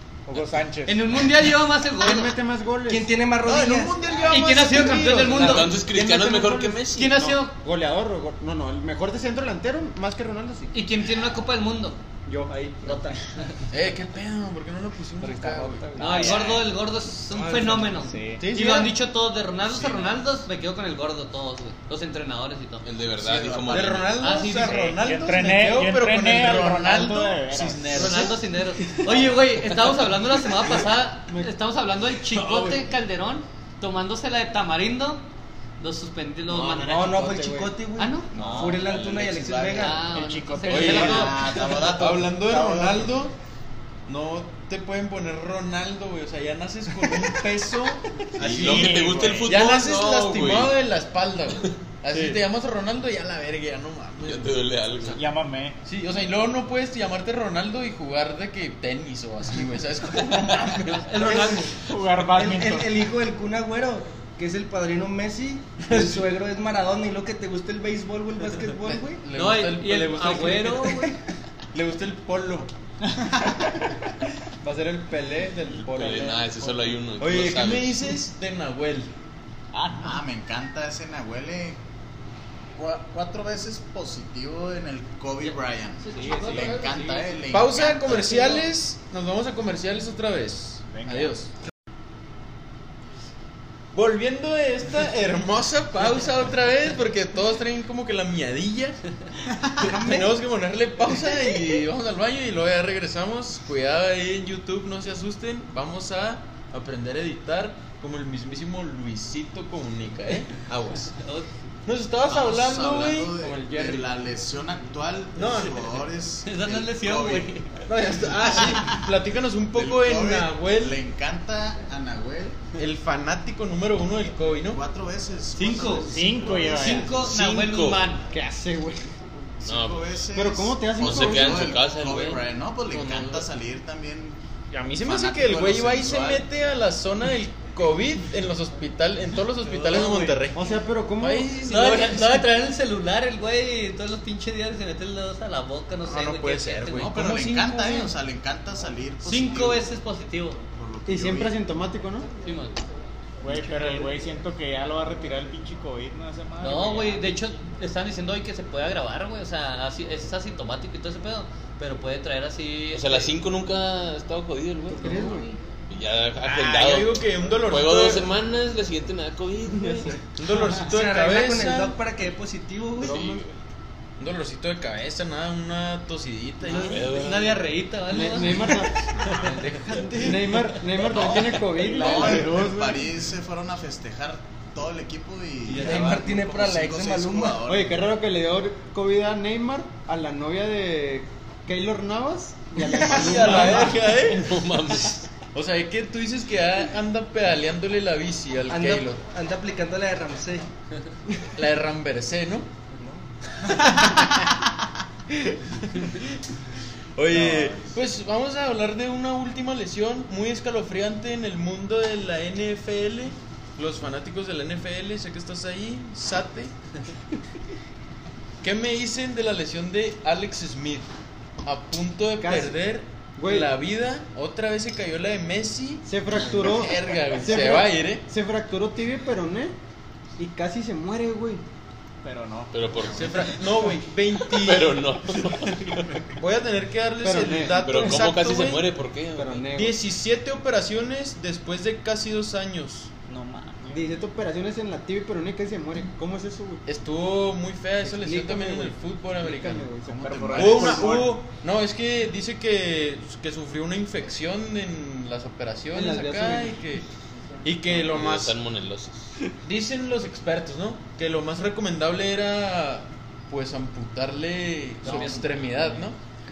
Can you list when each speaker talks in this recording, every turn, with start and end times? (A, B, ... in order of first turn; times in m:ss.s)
0:00.3-0:01.3 A
0:00.9-0:02.4 B
0:02.0-0:03.2 C
0:02.9-0:05.6 D
0:03.5-0:05.7 E
0:04.1-0:05.1 F
0:04.3-0:05.8 B
0:05.3-0:07.3 G
0:05.7-0:10.7 C
0:06.9-0:07.5 B
0:10.7-0:12.0 B
0:12.2-0:13.2 C
0:12.9-0:13.6 B
0:13.7-0:15.9 E
0:15.2-0:16.3 C
0:16.0-0:22.8 B
0:16.0-0:16.7 A
0:17.3-0:18.0 D
0:18.0-0:18.5 A
0:18.4-0:19.0 C
0:19.6-0:20.4 F
0:22.8-0:24.1 G
0:23.2-0:24.2 F
0:23.7-0:28.4 E
0:24.2-0:25.0 B
0:24.4-0:28.1 A
0:27.9-0:35.2 B
0:29.1-0:29.4 E
0:32.3-0:32.8 E
0:35.8-0:38.3 B
0:36.5-0:40.2 D
0:38.3-0:39.0 A
0:38.4-0:39.8 F
0:39.7-0:41.6 B
0:40.0-0:41.7 A
0:40.7-0:43.3 E
0:40.7-0:43.2 F
0:44.1-0:55.2 E
0:48.4-0:49.5 F
0:48.4-0:50.8 G
0:48.5-0:49.5 A
0:54.2-0:55.2 G
0:55.1-0:55.8 A
0:55.8-1:01.2 E
1:00.9-1:01.8 B
1:01.1-1:09.2 D
1:01.8-1:03.1 A
1:08.8-1:11.0 E
1:09.3-1:11.2 B
1:11.7-1:12.7 E
1:14.6-1:17.0 C
1:15.7-1:18.0 G
1:17.2-1:19.1 E
1:19.7-1:20.2 A
1:20.0-1:21.8 F
1:22.8-1:28.7 F
1:25.4-1:27.3 B
1:26.2-1:26.9 A
1:27.5-1:31.5 E
1:30.9-1:31.3 A
1:33.9-1:39.0 E
1:39.8-1:40.3 D
1:39.8-1:51.2 E
1:51.2-1:51.5 B
1:51.8-1:54.0 E
1:52.2-1:57.7 F
1:55.4-1:56.0 E
1:56.4-1:57.7 B
1:57.7-2:01.0 E
1:58.2-1:59.1 F
1:59.7-2:02.7 F
2:02.7-2:04.8 E
2:04.6-2:07.7 F
2:05.6-2:08.3 B
2:06.0-2:07.2 A
2:07.2-2:08.0 G
2:08.3-2:09.1 C
2:09.6-2:14.4 F
2:09.6-2:10.1 G
2:10.4-2:11.7 C
2:11.0-2:13.4 G
2:14.7-2:20.7 E
2:15.0-2:16.5 F
2:19.7-2:20.2 F
2:20.0-2:20.4 B
2:20.5-2:21.6 C
2:21.2-2:22.5 E
2:21.6-2:27.1 B
2:26.0-2:28.0 E
2:26.9-2:29.9 F
2:29.2-2:30.6 B
2:30.7-2:31.6 F
2:31.1-2:32.3 C
2:32.4-2:32.8 B
2:33.4-2:37.4 A
2:33.5-2:34.0 B
2:36.6-2:43.3 B
2:42.9-2:50.2 G
2:44.9-2:45.5 C
2:45.0-2:45.4 B
2:46.4-2:48.3 E
2:49.7-2:50.2 C
2:50.3-2:52.0 E
2:50.8-2:53.4 D
2:53.0-2:53.6 G
2:54.2-2:57.1 E
2:56.7-2:57.7 G
2:56.7-2:57.0 C
2:57.0-2:59.6 B
2:58.1-2:59.0 C
2:59.2-3:00.7 E
3:00.1-3:03.1 C
3:00.9-3:02.6 G
3:01.1-3:08.1 F
3:05.8-3:07.6 D
3:07.6-3:14.1 C
3:12.8-3:14.8 E
3:14.2-3:15.3 G
3:15.5-3:19.2 E
3:18.7-3:20.7 D
3:21.6-3:22.7 E
3:22.9-3:23.3 D
3:23.6-3:24.6 E
3:25.3-3:26.2 E
3:27.2-3:36.7 E
3:27.3-3:27.9 F
3:38.6-3:41.1 E
3:41.6-3:48.2 E
3:42.4-3:42.8 C
3:43.4-3:43.7 C
3:46.1-3:49.8 C
3:50.4-3:51.6 C
3:52.2-3:53.4 A
3:52.7-3:56.2 G
3:53.1-3:55.0 E
3:56.4-3:58.8 E
3:57.2-3:58.2 C
3:57.8-3:59.7 G
3:59.4-4:00.0 C
3:59.7-4:03.1 E
4:03.3-4:04.2 A
4:03.9-4:06.8 C
4:06.9-4:09.9 E
4:08.0-4:11.3 C
4:10.0-4:11.4 F
4:10.3-4:11.2 A
4:10.6-4:17.0 E
4:15.9-4:16.8 C
4:17.6-4:18.6 E
4:17.9-4:19.4 G
4:19.6-4:26.2 E
4:25.0-4:25.8 B
4:25.0-4:26.0 A